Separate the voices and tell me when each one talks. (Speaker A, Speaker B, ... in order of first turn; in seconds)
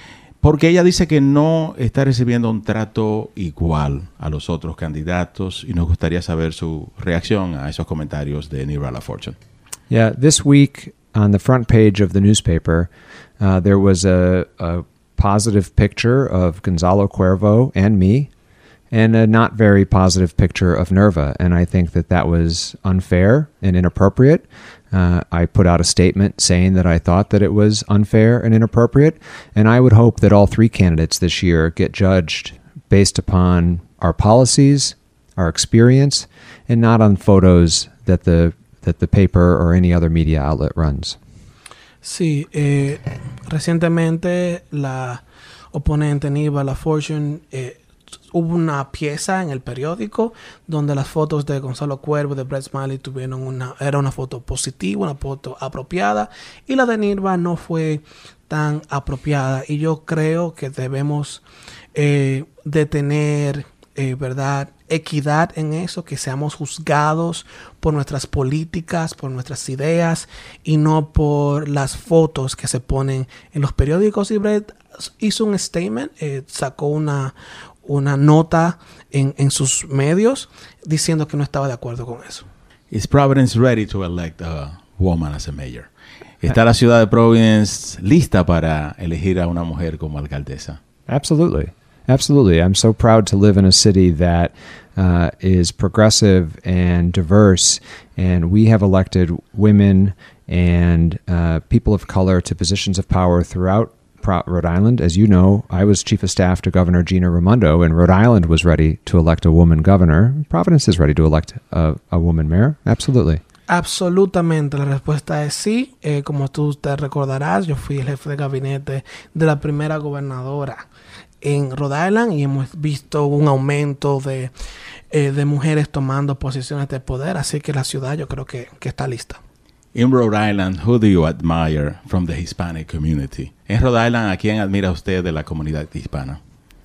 Speaker A: 0.4-9.3, 82.9-85.9, 86.4-90.8, 129.9-136.4
Speaker B: 9.9-18.3, 18.9-41.1, 91.1-113.4
Speaker C: 42.0-82.5, 113.7-120.9, 121.4-124.5, 125.1-129.4